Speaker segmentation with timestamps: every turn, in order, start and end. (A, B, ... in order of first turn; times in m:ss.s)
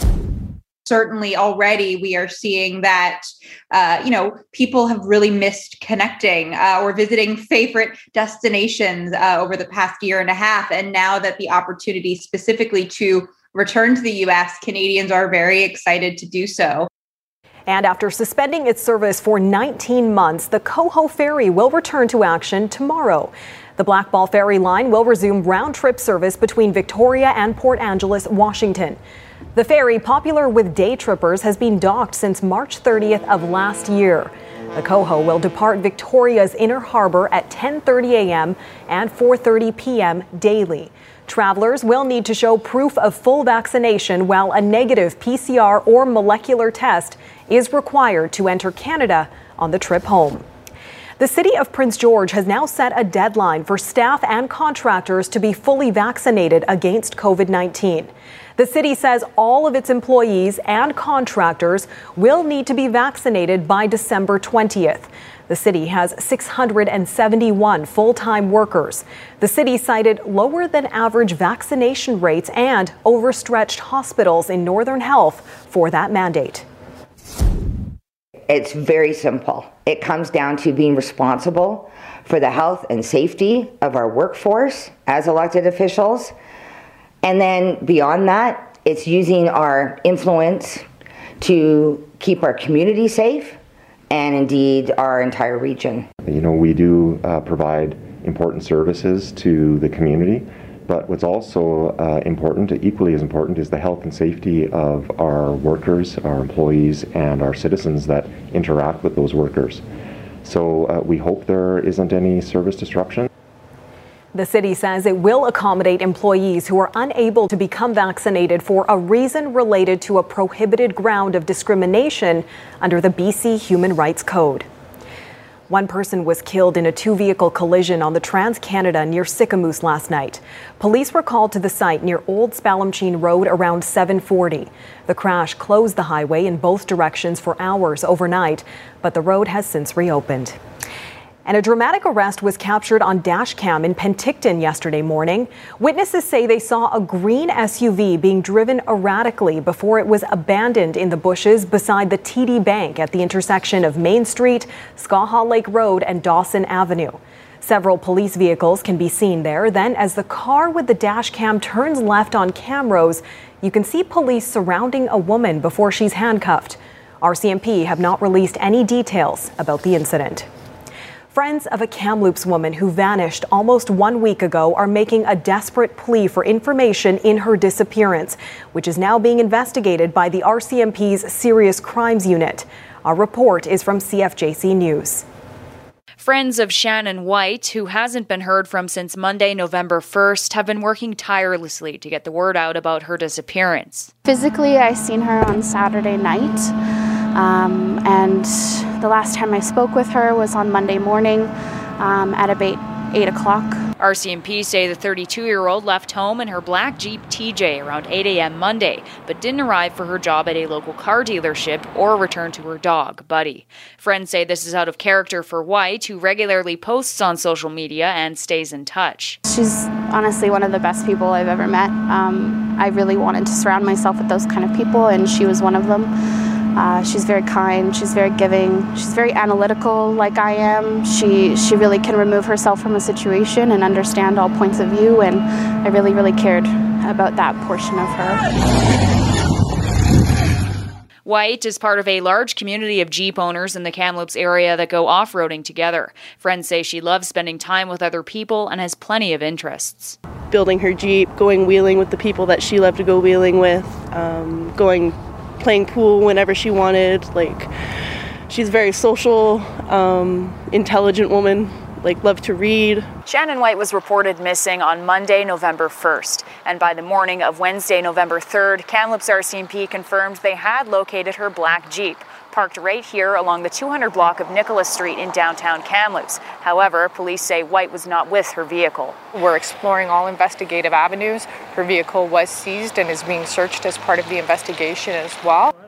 0:00.8-0:16.9 A
0:17.7-0:29.0 B
0:29.5-0:50.4 B
0:51.2-1:16.6 B
1:18.5-1:26.3 C
1:27.2-1:30.8 C
1:31.4-1:33.6 C
1:34.1-1:36.1 C
1:36.2-1:49.8 D
1:50.4-1:53.3 D
1:54.3-2:04.7 B
2:05.7-2:20.6 B
2:21.4-2:50.5 B
2:51.3-3:05.2 B
3:06.2-3:14.1 E
3:14.2-3:16.7 F
3:17.3-3:23.8 F
3:24.0-3:39.4 E
3:39.4-3:46.1 F
3:46.7-3:58.5 F
4:01.2-4:10.2 E
4:10.5-4:17.7 G
4:18.5-4:23.1 G
4:23.3-4:39.2 E
4:39.5-4:45.6 H